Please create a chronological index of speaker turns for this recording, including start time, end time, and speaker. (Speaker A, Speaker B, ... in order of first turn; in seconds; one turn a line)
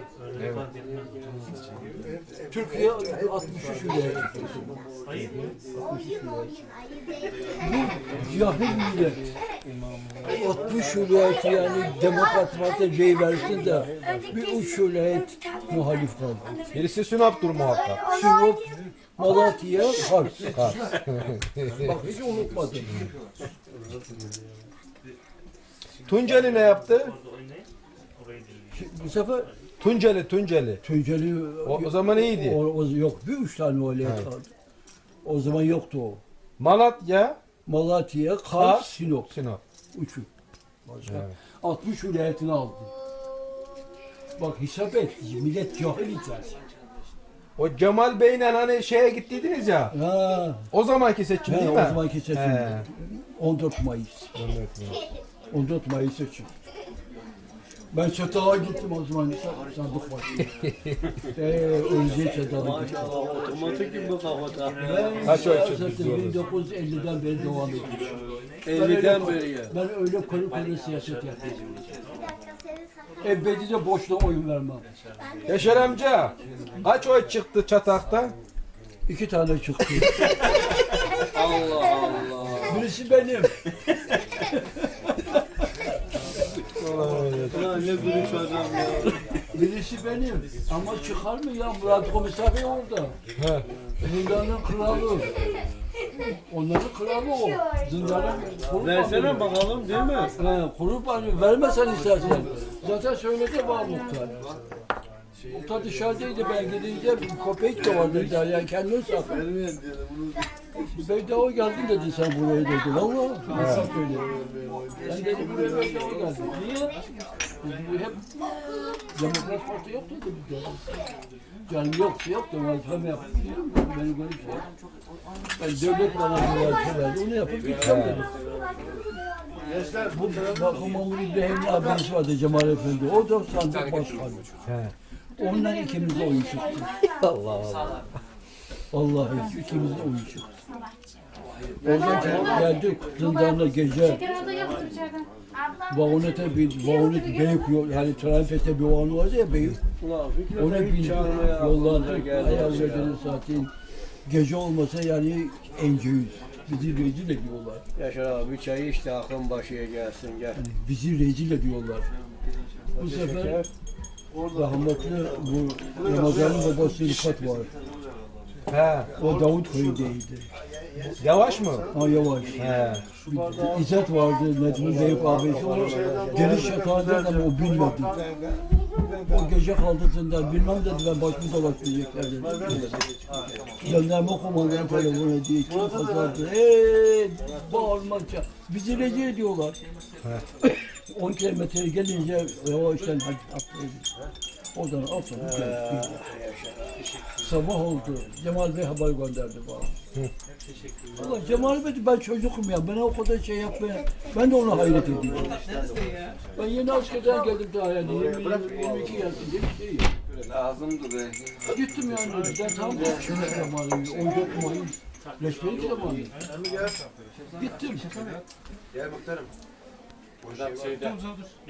Speaker A: 0.4-0.7
Speaker B: 2.5-4.8
Speaker B: 5.3-6.5
Speaker B: 7.6-9.2
Speaker B: 10.3-16.5
Speaker A: 16.7-18.0
Speaker B: 18.1-18.6
Speaker B: 19.2-20.8
Speaker A: 20.6-21.7
Speaker B: 21.8-23.1
Speaker A: 26.0-27.1
Speaker B: 28.7-29.5
Speaker A: 29.8-30.8
Speaker B: 30.8-34.5
Speaker A: 31.6-32.6
Speaker A: 34.0-34.3
Speaker B: 35.2-36.2
Speaker A: 36.6-37.4
Speaker B: 37.7-39.3
Speaker A: 38.5-39.6
Speaker B: 39.9-40.3
Speaker B: 40.9-42.9
Speaker A: 41.0-41.3
Speaker B: 44.4-46.6
Speaker A: 47.6-50.0
Speaker B: 49.9-50.7
Speaker A: 50.7-52.8
Speaker B: 51.5-54.3
Speaker A: 54.3-55.0
Speaker B: 55.5-56.5
Speaker B: 57.9-60.5
Speaker B: 61.3-63.1
Speaker C: 62.5-65.3
Speaker B: 64.8-68.1
Speaker A: 65.2-66.4
Speaker C: 68.6-69.7
Speaker B: 68.7-71.7
Speaker B: 73.2-74.8
Speaker A: 75.5-78.3
Speaker B: 79.1-80.2
Speaker C: 81.3-82.9
Speaker B: 82.7-83.5
Speaker A: 86.8-88.1
Speaker C: 86.8-89.2
Speaker B: 89.5-93.1
Speaker A: 93.4-93.6
Speaker B: 94.0-95.3
Speaker B: 96.5-99.5
Speaker C: 98.8-100.3
Speaker B: 100.4-104.3
Speaker B: 105.5-109.4
Speaker C: 109.4-110.2
Speaker B: 110.8-114.3
Speaker A: 113.5-113.9
Speaker B: 115.0-117.0
Speaker B: 117.6-118.2
Speaker B: 119.1-120.9
Speaker B: 121.7-124.7
Speaker B: 125.6-128.3
Speaker A: 127.8-128.2
Speaker B: 130.1-134.5
Speaker A: 134.7-134.9
Speaker B: 135.4-136.9
Speaker A: 137.2-138.0
Speaker B: 138.9-140.5
Speaker C: 141.8-142.7
Speaker B: 141.8-144.2
Speaker B: 145.9-149.8
Speaker C: 150.0-153.2
Speaker B: 150.5-153.7
Speaker B: 154.2-157.8
Speaker C: 158.0-160.6
Speaker B: 160.6-162.1
Speaker C: 163.0-163.7
Speaker B: 163.0-163.6
Speaker B: 164.5-167.7
Speaker A: 168.7-169.1
Speaker B: 169.2-170.5
Speaker A: 171.2-171.9
Speaker B: 171.9-172.6
Speaker A: 172.6-173.0
Speaker B: 173.2-178.2
Speaker C: 174.7-176.7
Speaker B: 179.2-182.8
Speaker C: 182.4-183.1
Speaker B: 183.8-189.8
Speaker C: 185.7-186.1
Speaker B: 190.6-194.1
Speaker B: 194.7-196.2
Speaker C: 195.3-197.0
Speaker B: 197.4-199.9
Speaker B: 201.2-205.5
Speaker C: 204.9-206.0
Speaker B: 206.6-210.1
Speaker C: 210.4-211.2
Speaker B: 211.7-216.3
Speaker B: 217.5-218.1
Speaker C: 220.5-221.1